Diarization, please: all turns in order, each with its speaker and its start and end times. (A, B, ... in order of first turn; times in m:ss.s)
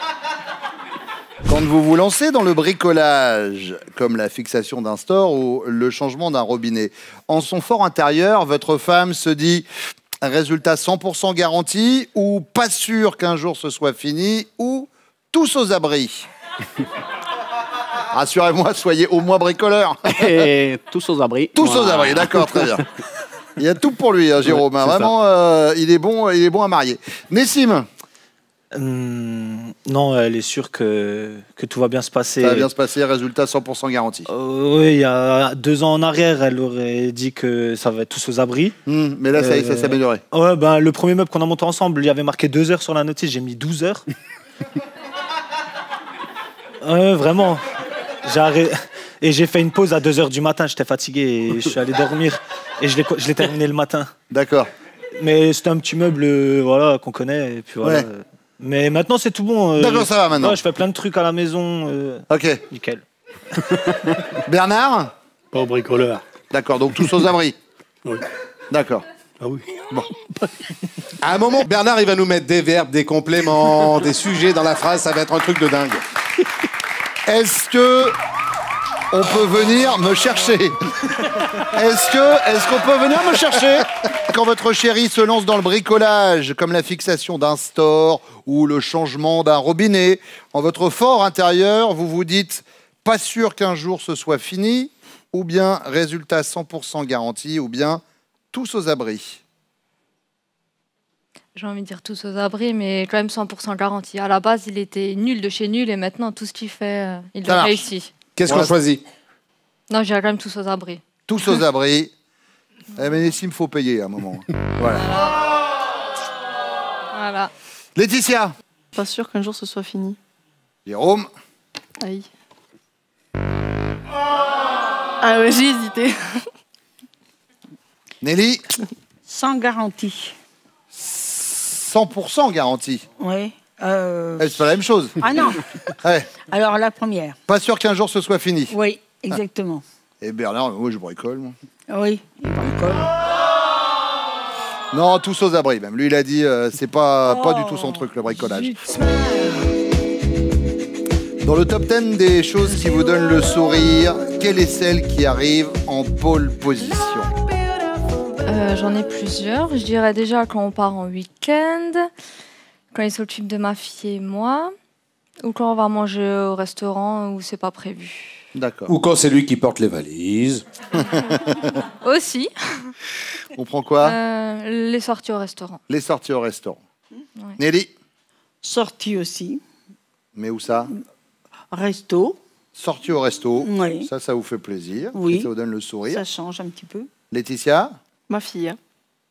0:01.5-0:09.7 A
0:10.2-0:16.3 A
0:18.1-0:20.1 A
0:20.1-0:22.7 B
0:21.6-0:22.8 A
0:23.6-0:27.9 A
0:24.5-0:25.1 B
0:28.7-0:32.7 C
0:32.4-0:34.3 A
0:34.3-0:38.8 C
0:38.9-0:40.2 A
0:39.4-0:44.0 C
0:46.8-0:47.6 C
0:48.2-0:54.1 C
0:54.3-0:54.7 A
0:55.2-1:03.0 C
0:59.8-1:00.6 A
1:02.3-1:02.6 A
1:04.4-1:05.1 A
1:05.5-1:06.2 D
1:06.5-1:07.6 A
1:08.7-1:09.0 A
1:09.4-1:10.7 D
1:11.2-1:16.0 E
1:17.3-1:18.2 A
1:19.1-1:20.8 A
1:21.7-1:38.0 A
1:38.5-1:39.4 A
1:41.6-1:48.1 F
1:47.4-1:47.8 A
1:48.4-1:49.0 E
1:48.5-1:48.7 A
1:49.9-1:51.0 F
1:51.3-1:52.1 A
1:53.0-1:55.0 A
1:54.9-1:55.4 F
1:57.1-1:57.5 F
1:58.0-1:58.5 A
1:59.0-2:00.2 G
2:00.9-2:01.3 A
2:05.2-2:06.1 G
2:08.2-2:08.6 A
2:09.3-2:10.4 H
2:10.9-2:13.0 A
2:13.2-2:14.7 H
2:14.4-2:15.2 A
2:15.2-2:17.4 H
2:16.0-2:16.3 A
2:17.5-2:18.8 A
2:18.7-2:19.8 H
2:20.2-2:21.5 A
2:21.9-2:23.1 H
2:24.9-2:28.8 A
2:29.0-2:29.6 H
2:31.4-2:37.3 A
2:38.5-2:42.1 F
2:42.9-2:44.7 F
2:45.4-2:48.4 F
2:48.6-2:48.9 A
2:48.9-2:50.7 E
2:51.1-2:51.6 A
2:52.0-2:52.9 F
2:53.6-2:54.2 A
2:54.0-2:55.8 F
2:55.9-2:56.8 A
2:57.6-2:57.9 A
2:58.6-2:59.6 H
3:00.4-3:00.9 A
3:01.7-3:02.4 H
3:02.8-3:06.2 A
3:03.6-3:04.1 H
3:05.1-3:05.5 H
3:06.1-3:07.1 H
3:07.3-3:07.9 A
3:08.3-3:08.7 G